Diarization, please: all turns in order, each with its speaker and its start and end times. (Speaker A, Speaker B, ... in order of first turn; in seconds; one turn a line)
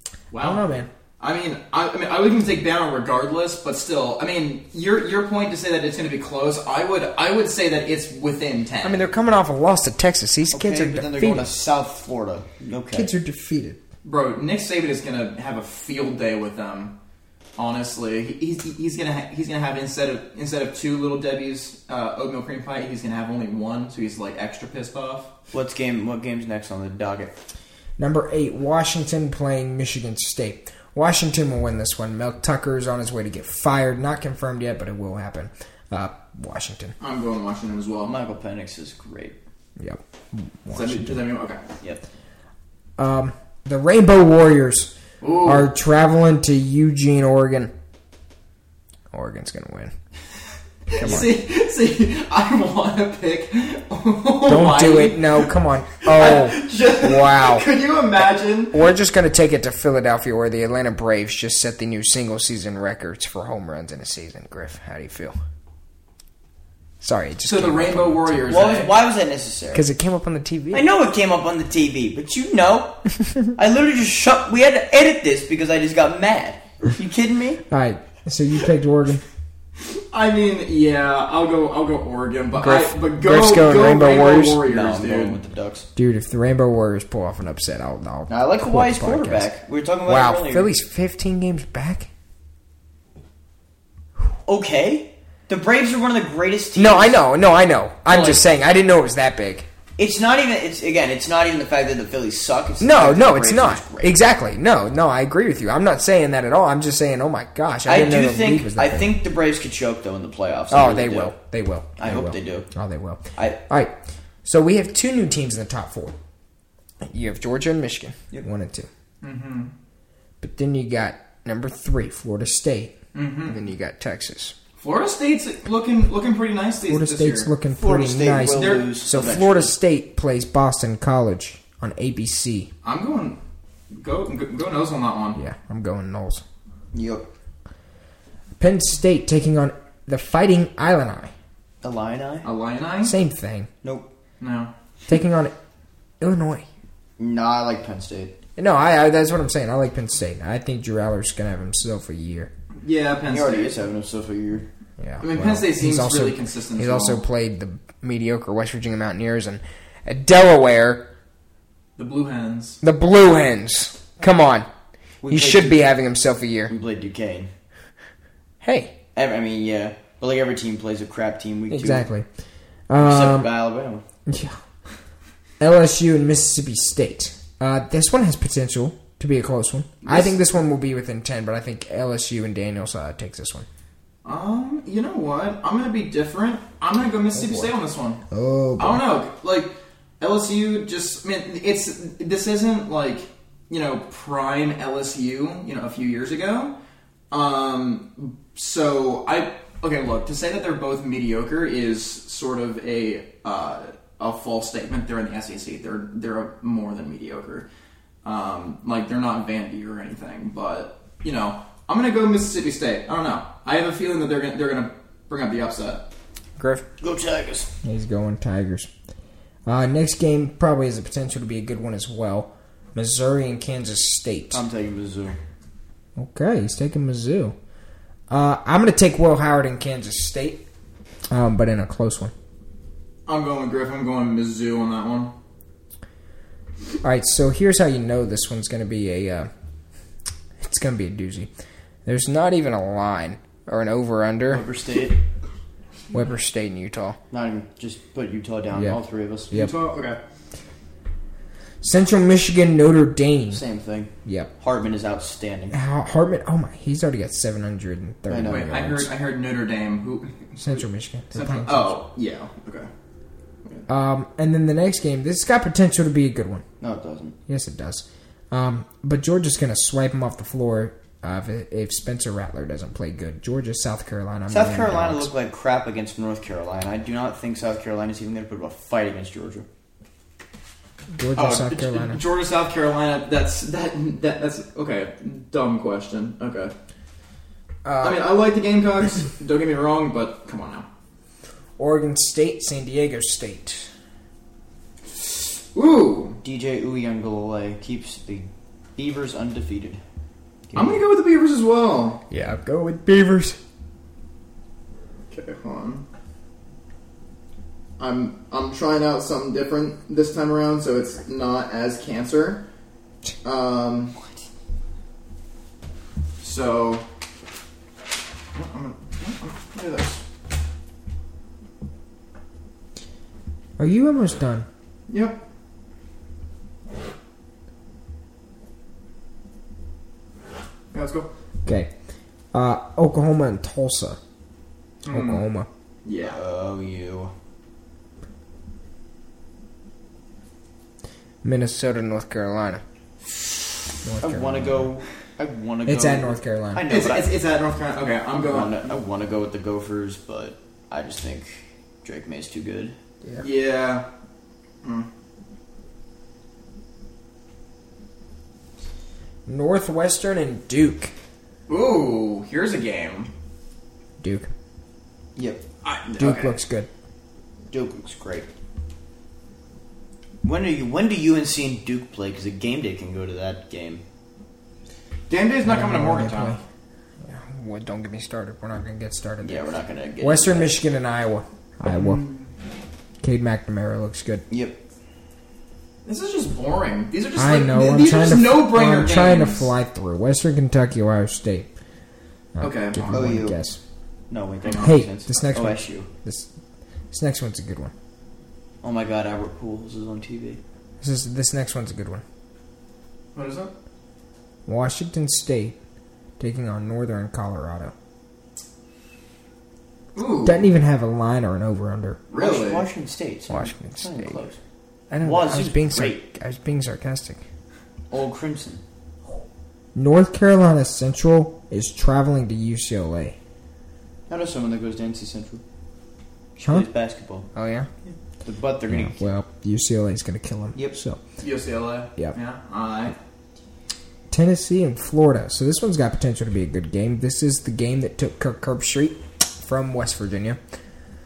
Speaker A: 0.3-0.6
Speaker B: 0.3-0.9
Speaker A: 1.2-9.1
Speaker B: 8.8-11.5
Speaker C: 10.5-13.1
Speaker B: 12.9-13.8
Speaker A: 14.0-16.9
Speaker A: 17.6-25.3
Speaker C: 25.5-27.3
Speaker B: 28.0-36.9
Speaker A: 37.0-38.1
Speaker C: 38.0-39.4
Speaker B: 39.8-41.2
Speaker A: 40.7-41.6
Speaker B: 43.0-47.7
Speaker A: 45.2-45.7
Speaker B: 49.1-49.9
Speaker A: 50.9-58.8
Speaker C: 51.0-51.2
Speaker B: 51.0-51.3
Speaker B: 54.5-57.7
Speaker B: 58.7-65.3
Speaker B: 67.0-68.5
Speaker A: 67.4-68.9
Speaker C: 68.5-69.8
Speaker B: 69.7-70.8
Speaker C: 70.7-77.6
Speaker B: 77.7-79.2
Speaker A: 79.8-85.4
Speaker B: 82.6-84.6
Speaker C: 84.7-85.9
Speaker B: 86.0-89.5
Speaker C: 88.3-90.7
Speaker B: 90.0-92.1
Speaker C: 94.5-97.2
Speaker B: 96.8-99.7
Speaker C: 98.1-98.4
Speaker C: 100.0-104.2
Speaker B: 102.8-109.2
Speaker C: 107.8-111.3
Speaker B: 110.7-116.2
Speaker C: 112.0-112.7
Speaker B: 117.0-118.9
Speaker A: 119.2-119.7
Speaker B: 120.4-124.5
Speaker A: 123.1-123.5
Speaker A: 124.8-127.5
Speaker B: 126.9-132.7
Speaker C: 127.7-129.7
Speaker A: 128.5-128.9
Speaker A: 132.8-133.4
Speaker A: 133.9-135.4
Speaker B: 135.3-136.4
Speaker C: 136.9-137.3
Speaker B: 138.6-141.3
Speaker C: 141.8-142.5
Speaker A: 142.4-143.1
Speaker B: 143.0-143.7
Speaker C: 143.8-144.1
Speaker A: 144.4-144.7
Speaker B: 145.1-145.5
Speaker B: 146.2-146.7
Speaker C: 147.2-148.3
Speaker B: 148.6-152.5
Speaker A: 152.8-153.8
Speaker C: 153.3-154.7
Speaker B: 155.0-161.1
Speaker A: 155.2-157.2
Speaker A: 162.0-162.8
Speaker B: 162.8-164.7
Speaker C: 165.2-165.8
Speaker B: 165.3-166.7
Speaker C: 166.7-167.5
Speaker B: 168.6-168.9
Speaker C: 169.1-172.1
Speaker B: 171.7-172.3
Speaker B: 172.9-173.5
Speaker C: 173.0-174.0
Speaker B: 174.3-174.6
Speaker B: 175.6-183.7
Speaker A: 184.2-188.2
Speaker B: 187.4-187.7
Speaker B: 188.3-189.0
Speaker A: 188.8-196.7
Speaker A: 197.3-207.7
Speaker A: 208.2-216.1
Speaker B: 216.6-216.8
Speaker C: 217.0-217.7
Speaker B: 217.8-218.9
Speaker B: 219.7-224.6
Speaker C: 224.5-225.4
Speaker B: 226.2-227.5
Speaker B: 228.3-230.6
Speaker B: 231.3-232.3
Speaker A: 233.3-235.3
Speaker B: 237.0-239.5
Speaker B: 240.6-241.5
Speaker B: 242.1-244.6
Speaker C: 244.5-245.2
Speaker B: 246.1-247.2
Speaker C: 247.3-249.7
Speaker A: 249.5-250.2
Speaker B: 251.8-253.6
Speaker C: 253.5-255.8
Speaker B: 254.2-254.5
Speaker B: 255.7-259.1
Speaker C: 258.3-258.8
Speaker A: 258.4-262.9
Speaker B: 260.6-261.9
Speaker B: 263.9-266.6
Speaker C: 266.8-267.3
Speaker B: 267.5-275.3
Speaker C: 274.5-279.6
Speaker B: 281.1-282.2
Speaker A: 281.3-286.7
Speaker B: 287.8-288.2
Speaker A: 288.0-290.9
Speaker B: 291.8-293.9
Speaker A: 295.1-296.4
Speaker C: 296.4-300.0
Speaker C: 300.7-301.0
Speaker A: 300.7-302.2
Speaker B: 302.3-303.6
Speaker A: 305.3-306.0
Speaker A: 308.0-312.6
Speaker A: 313.4-314.1
Speaker A: 316.4-317.0
Speaker A: 318.5-320.2
Speaker B: 323.8-324.7
Speaker A: 325.1-325.4
Speaker A: 330.9-331.3
Speaker B: 331.6-331.9
Speaker B: 332.5-334.2
Speaker A: 335.0-335.4
Speaker B: 335.1-335.7
Speaker A: 336.0-336.4
Speaker C: 336.2-337.3
Speaker B: 341.4-342.8
Speaker B: 344.0-344.9
Speaker C: 344.2-347.3
Speaker B: 345.9-346.8
Speaker A: 346.9-348.8
Speaker C: 348.4-352.9
Speaker A: 353.4-354.1
Speaker B: 359.5-361.1
Speaker A: 361.7-363.3
Speaker B: 364.2-364.5
Speaker C: 365.4-365.6
Speaker A: 365.8-366.5
Speaker B: 366.2-366.9
Speaker C: 367.7-368.5
Speaker C: 370.4-374.0
Speaker A: 375.3-376.6
Speaker B: 375.6-376.6
Speaker B: 377.2-379.6
Speaker C: 379.4-380.8
Speaker B: 380.2-382.2
Speaker B: 383.2-384.4
Speaker C: 384.5-384.8
Speaker A: 386.0-389.7
Speaker B: 387.4-391.7
Speaker B: 392.6-393.8
Speaker A: 392.6-393.3
Speaker C: 393.1-393.6
Speaker C: 394.3-396.1
Speaker A: 394.6-394.9
Speaker B: 394.8-396.5
Speaker B: 397.1-397.9
Speaker C: 398.8-400.6
Speaker B: 401.0-402.2
Speaker A: 403.3-403.7
Speaker B: 404.6-405.8
Speaker B: 406.4-407.9
Speaker A: 410.1-410.7
Speaker B: 410.4-412.2
Speaker A: 412.3-412.9
Speaker C: 412.3-414.6
Speaker B: 413.5-414.4
Speaker B: 415.1-417.4
Speaker C: 415.2-416.2
Speaker C: 418.1-418.8
Speaker B: 419.9-423.4
Speaker C: 424.3-425.6
Speaker C: 426.6-427.5
Speaker B: 427.5-427.9
Speaker C: 428.4-429.2
Speaker B: 428.9-431.2
Speaker A: 431.4-433.1
Speaker B: 434.3-440.6